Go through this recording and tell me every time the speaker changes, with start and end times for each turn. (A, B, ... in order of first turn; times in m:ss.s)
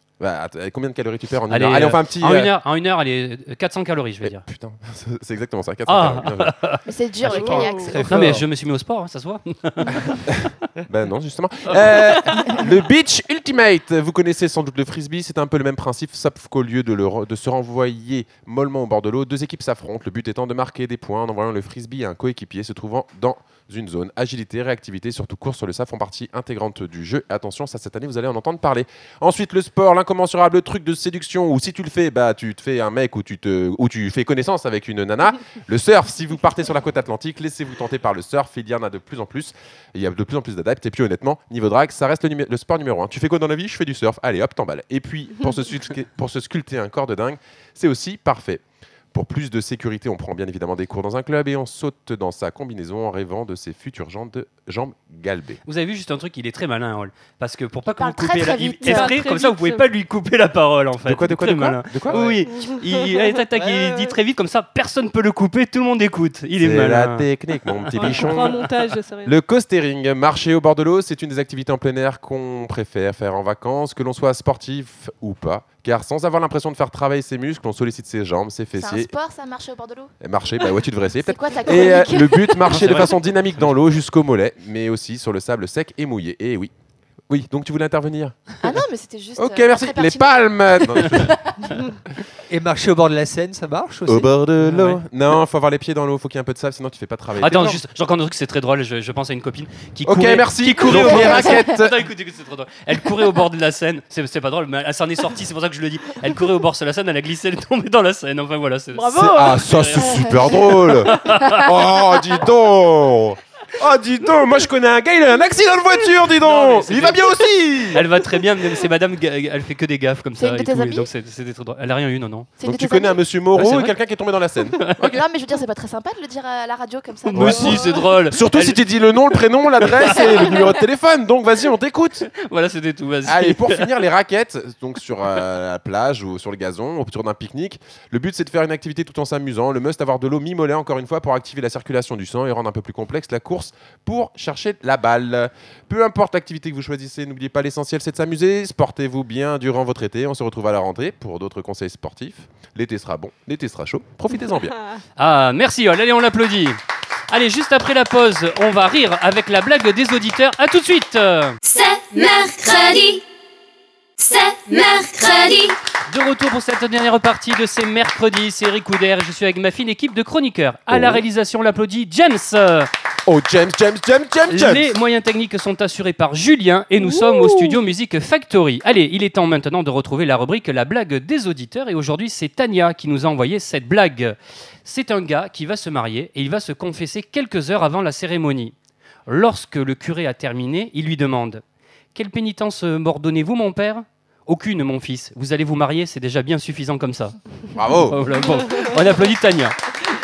0:00.2-0:02.5 A
0:01.5-0:04.4 B
0:04.2-0:06.6 A
0:05.9-0:10.2 B
0:06.9-0:08.2 C
0:07.3-0:08.4 D
0:07.5-0:07.9 E
0:10.3-0:55.6 A
0:55.7-1:08.6 B
0:57.9-0:59.2 C
0:58.8-0:59.9 E
1:01.0-1:02.4 A
1:02.5-1:02.9 E
1:03.6-1:04.0 E
1:06.6-1:08.6 A
1:08.0-1:09.4 E
1:09.2-1:19.1 A
1:18.7-1:22.8 C
1:20.2-1:26.7 A
1:22.7-1:23.1 B
1:27.3-1:28.6 A
1:28.6-1:31.7 C
1:29.4-1:31.3 A
1:32.5-1:34.3 D
1:34.1-1:37.8 A
1:34.6-1:35.0 B
1:37.4-1:51.6 B
1:40.0-1:42.0 A
1:41.0-1:41.4 C
1:49.0-1:49.6 E
1:49.2-1:58.0 A
1:56.4-1:57.2 B
1:57.9-2:02.5 B
2:00.4-2:01.1 C
2:02.6-2:03.2 C
2:02.6-2:05.2 A
2:03.6-2:04.0 B
2:05.1-2:07.9 C
2:07.3-2:08.8 B
2:07.4-2:12.3 A
2:10.0-2:10.6 B
2:10.1-2:10.7 C
2:12.3-2:13.9 B
2:13.2-2:34.8 A
2:35.2-2:36.8 B
2:37.3-2:41.6 B
2:41.6-2:43.2 F
2:44.2-2:45.8 F
2:46.1-2:52.9 B
2:50.9-2:51.2 A
2:53.3-2:54.9 A
2:54.5-3:08.7 B
3:09.3-3:11.6 B
3:12.2-3:17.4 B
3:17.7-3:18.5 A
3:18.1-3:19.9 B